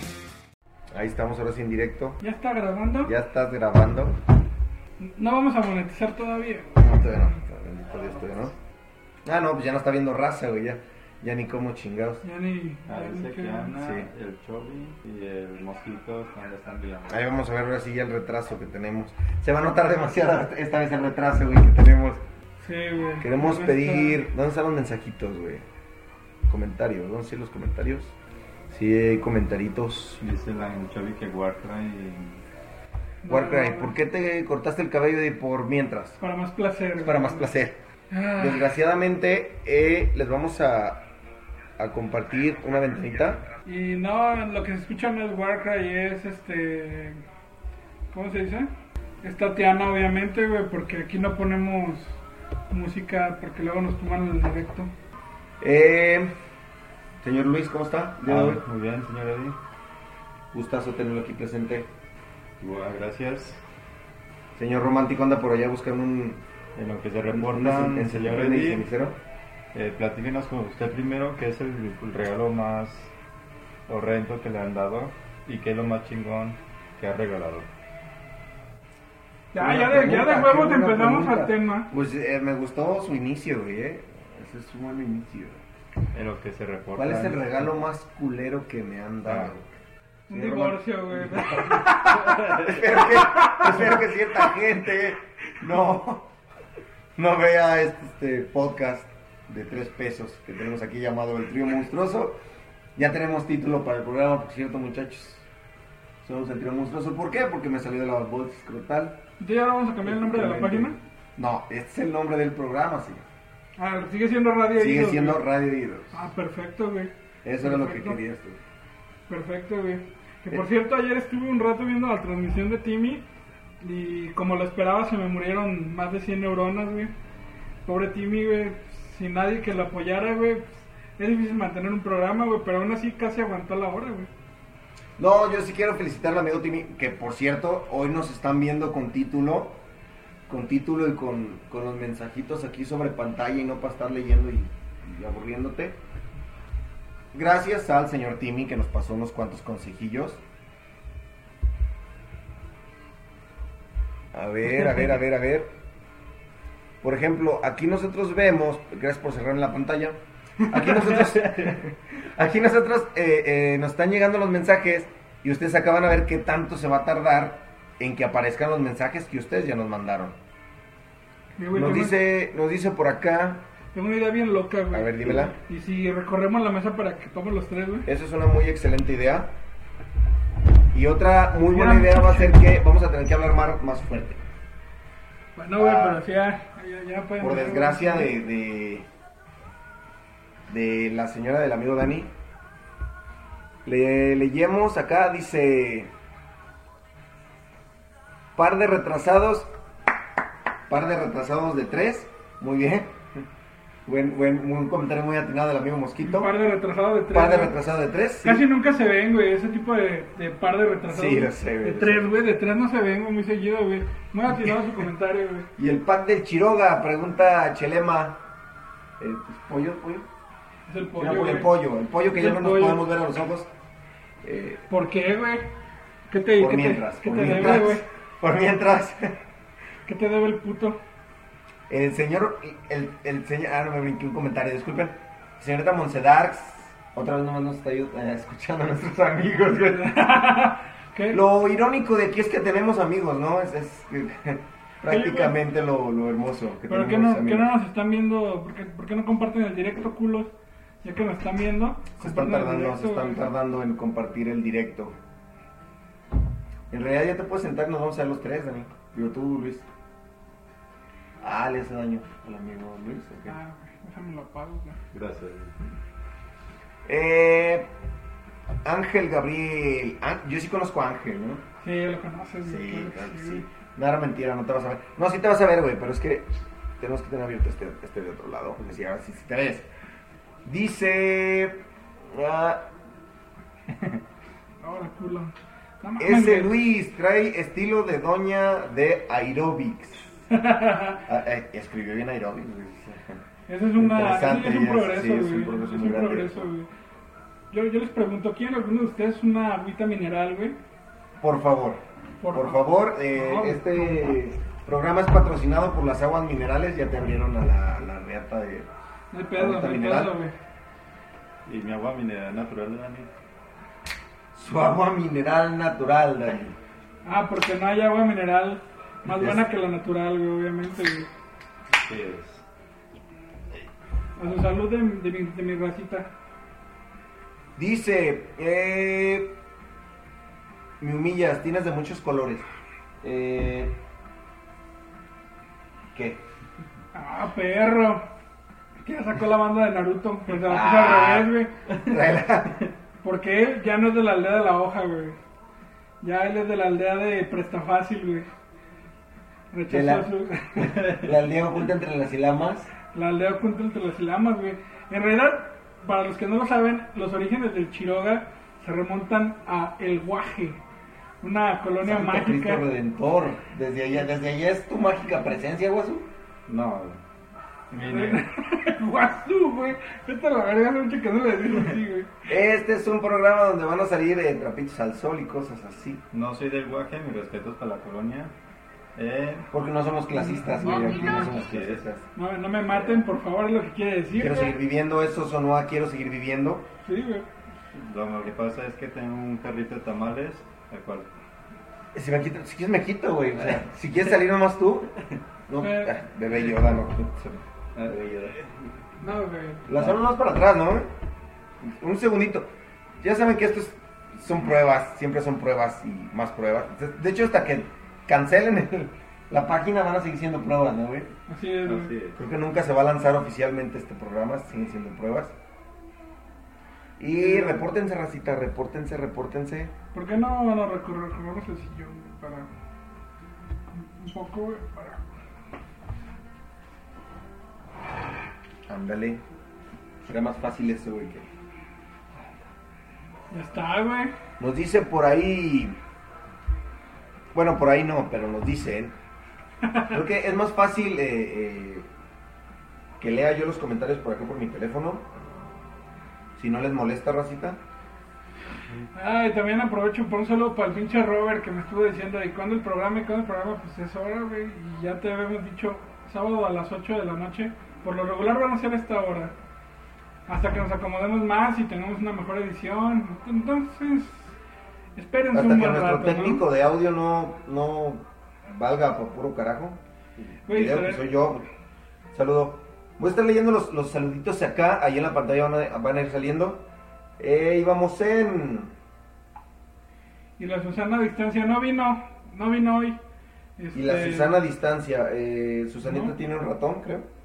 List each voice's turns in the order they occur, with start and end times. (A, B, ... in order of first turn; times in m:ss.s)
0:00.9-0:02.2 A
0:02.2-0:03.1 B
0:03.0-0:04.2 A
0:05.0-0:06.8 B
0:06.8-0:08.6 A
0:09.2-0:12.2 A
0:12.2-0:13.8 B
0:12.9-0:17.2 C
0:13.8-0:14.1 A
0:17.1-0:22.2 A
0:22.6-0:24.2 B
0:23.2-0:25.6 A
0:26.5-0:28.2 A
0:28.7-0:30.2 A
0:30.2-0:32.4 C
0:33.2-0:34.0 B
0:33.3-0:36.2 A
0:36.2-0:37.5 B
0:37.0-0:37.8 A
0:38.1-0:38.7 B
0:38.4-0:41.1 A
0:41.8-0:43.4 A
0:43.6-0:47.2 B
0:48.1-0:48.7 B
0:49.2-0:54.9 B
0:55.6-0:56.4 A
0:57.2-0:58.6 A
0:58.3-0:59.6 C
1:00.5-1:01.9 A
1:02.6-1:03.6 C
1:04.6-1:06.4 A
1:06.8-1:08.9 C
1:07.3-1:09.2 A
1:09.7-1:13.1 C
1:13.9-1:17.7 C
1:19.5-1:21.9 B
1:19.6-1:25.6 A
1:26.1-1:27.6 C
1:27.0-1:29.7 A
1:29.3-1:29.5 C
1:30.3-1:36.3 A
1:30.3-1:33.8 B
1:32.3-1:32.8 C
1:37.2-1:42.4 A
1:43.0-1:45.5 A
1:46.2-1:49.2 A
1:49.4-1:51.0 B
1:50.0-1:53.3 A
1:53.8-1:55.4 B
1:54.8-1:56.3 A
1:56.1-1:58.2 B
1:57.4-1:58.6 A
1:59.3-2:03.2 B
2:03.8-2:07.1 B
2:07.8-2:14.3 B
2:15.2-2:19.8 A
2:20.5-2:26.0 A
2:27.3-2:30.4 A
2:34.3-2:35.8 A
2:37.0-2:50.4 A
2:41.4-2:41.7 C
2:51.6-2:52.2 B
2:51.7-2:53.6 A
2:53.9-2:58.1 B
2:54.9-2:55.6 A
2:58.1-2:59.5 A
3:00.9-3:04.4 A
3:01.7-3:02.6 B
3:05.6-3:08.3 B
3:05.8-3:06.2 A
3:07.4-3:09.1 A
3:10.7-3:12.3 A
3:13.8-3:16.1 A
3:18.6-3:19.7 A
3:20.9-3:23.4 A
3:24.1-3:26.5 A
3:26.2-3:27.8 B
3:27.3-3:28.6 A
3:28.4-3:35.7 B
3:31.1-3:32.3 A
3:35.8-3:38.4 A
3:39.2-3:40.3 A
3:40.9-3:41.7 B
3:41.2-3:43.7 A
3:42.4-3:43.1 B
3:44.4-3:44.8 A
3:44.9-3:45.7 B
3:46.3-3:48.0 B
3:46.6-3:49.4 A
3:50.1-3:51.0 B
3:51.9-4:00.2 A
3:59.8-4:01.4 B
4:01.3-4:07.7 A
4:05.1-4:05.6 B
4:06.9-4:10.5 B
4:11.0-4:13.5 B
4:12.2-4:15.2 A
4:16.9-4:19.9 A
4:21.4-4:23.5 A
4:23.5-4:25.0 B
4:25.1-4:25.8 C
4:27.1-4:27.9 A
4:28.8-4:31.6 A
4:31.8-4:33.6 B
4:32.6-4:39.9 A
4:40.6-4:42.8 A
4:43.9-4:44.2 C
4:44.8-4:46.7 B
4:46.2-4:50.4 A
4:50.5-4:51.2 B
4:51.3-4:53.4 A
4:53.7-4:56.9 B
4:54.0-4:56.7 A
4:57.7-5:00.8 B
5:01.4-5:08.9 A
5:02.4-5:04.4 B
5:09.3-5:10.6 B
5:09.6-5:10.3 A
5:11.7-5:13.3 C
5:14.5-5:16.8 A
5:17.2-5:21.3 B
5:19.4-5:19.6 A
5:21.9-5:22.6 C
5:24.4-5:26.3 B
5:27.8-5:29.6 A
5:31.0-5:32.7 A
5:33.2-5:34.0 A
5:36.1-5:36.4 A
5:37.1-5:38.3 B
5:39.0-5:41.7 B
5:40.6-5:42.9 A
5:43.2-5:45.4 B
5:46.2-5:48.5 B
5:49.7-5:51.0 B
5:49.9-5:52.9 A
5:53.1-6:00.8 B
6:01.4-6:02.8 B
6:02.0-6:06.3 A
6:06.7-6:07.2 C
6:07.9-6:08.4 C
6:08.0-6:12.4 B
6:12.5-6:16.2 A
6:16.3-6:18.5 C
6:19.2-6:19.7 C
6:19.7-6:22.3 A
6:20.3-6:21.6 B
6:20.9-6:22.0 C
6:22.3-6:24.8 B
6:22.9-6:23.2 A
6:24.4-6:26.9 A
6:27.0-6:27.5 B
6:27.9-6:31.4 C
6:32.1-6:35.1 A
6:35.7-6:37.3 A
6:35.8-6:36.2 B
6:37.4-6:38.7 C
6:38.0-6:38.6 A
6:39.2-6:39.9 B
6:39.9-6:41.1 A
6:39.9-6:40.2 C
6:41.8-6:42.7 A
6:43.2-6:51.3 A
6:51.5-6:52.1 B
6:51.8-6:52.4 C
6:52.4-6:55.6 A
6:57.2-6:59.9 A
6:57.4-6:57.9 B
7:00.1-7:02.7 B
7:03.9-7:05.2 B
7:08.9-7:09.4 A
7:10.2-7:11.5 A
7:13.5-7:14.3 B
7:14.6-7:16.0 A
7:17.5-7:19.2 A
7:19.8-7:20.2 B
7:20.1-7:22.1 A
7:23.2-7:25.3 A
7:26.6-7:27.8 A
7:29.1-7:39.5 B
7:40.5-7:44.5 B
7:45.2-7:46.6 B
7:45.5-7:50.0 A
7:50.7-7:51.2 B
7:50.7-7:51.7 A
7:52.3-7:56.8 A
7:57.4-7:58.9 A
8:00.6-8:03.2 B
8:03.8-8:04.6 B
8:03.9-8:07.3 A
8:06.0-8:06.3 B